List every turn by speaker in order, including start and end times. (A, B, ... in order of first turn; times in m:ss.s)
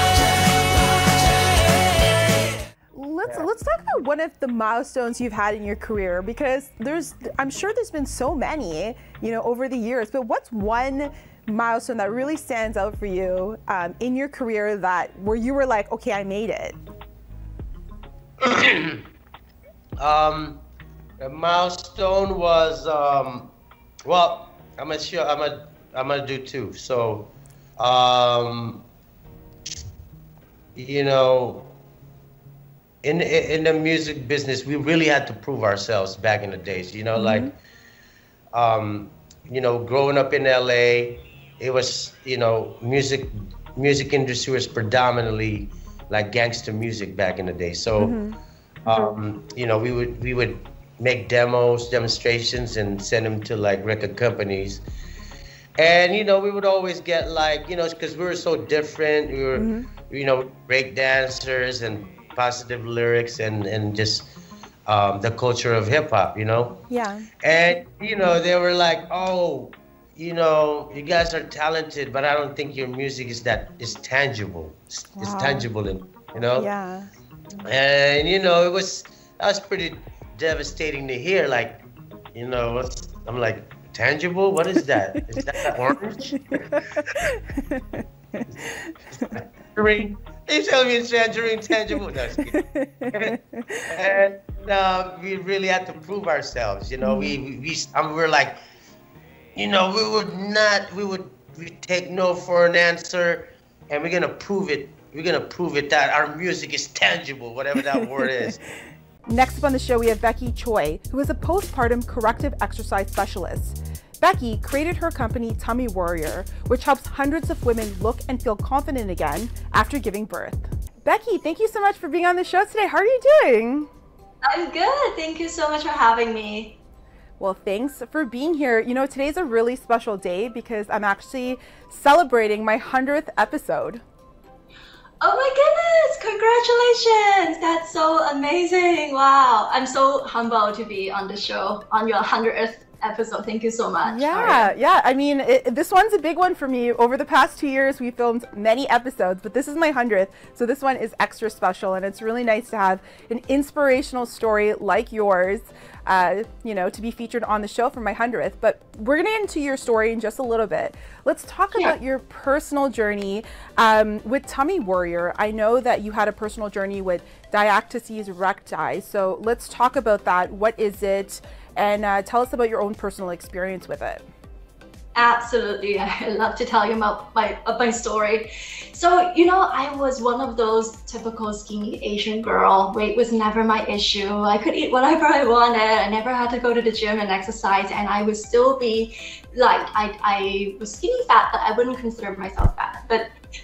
0:02.9-0:16.8 A
0:18.4-0:19.0 B
0:20.0-0:20.6 B
0:21.2-0:23.5 B
0:24.0-0:28.8 B
0:30.8-0:31.7 B
0:33.0-0:37.5 B
0:37.2-0:37.5 A
0:38.5-0:48.2 B
0:48.0-0:48.4 A
0:48.9-0:54.8 B
0:55.8-1:04.3 B
0:59.6-0:59.9 A
1:04.9-1:06.8 B
1:06.9-1:07.3 A
1:07.4-1:16.7 B
1:15.2-1:15.7 A
1:16.6-1:17.1 A
1:17.6-1:26.8 B
1:26.3-1:26.8 A
1:27.5-1:28.5 A
1:29.1-1:38.6 B
1:32.5-1:33.8 A
1:37.0-1:37.4 A
1:39.6-1:48.6 B
1:49.3-2:03.9 A
2:04.5-2:06.8 C
2:07.4-2:14.0 A
2:15.2-2:24.7 C
2:24.0-2:54.2 A
2:55.2-3:13.3 C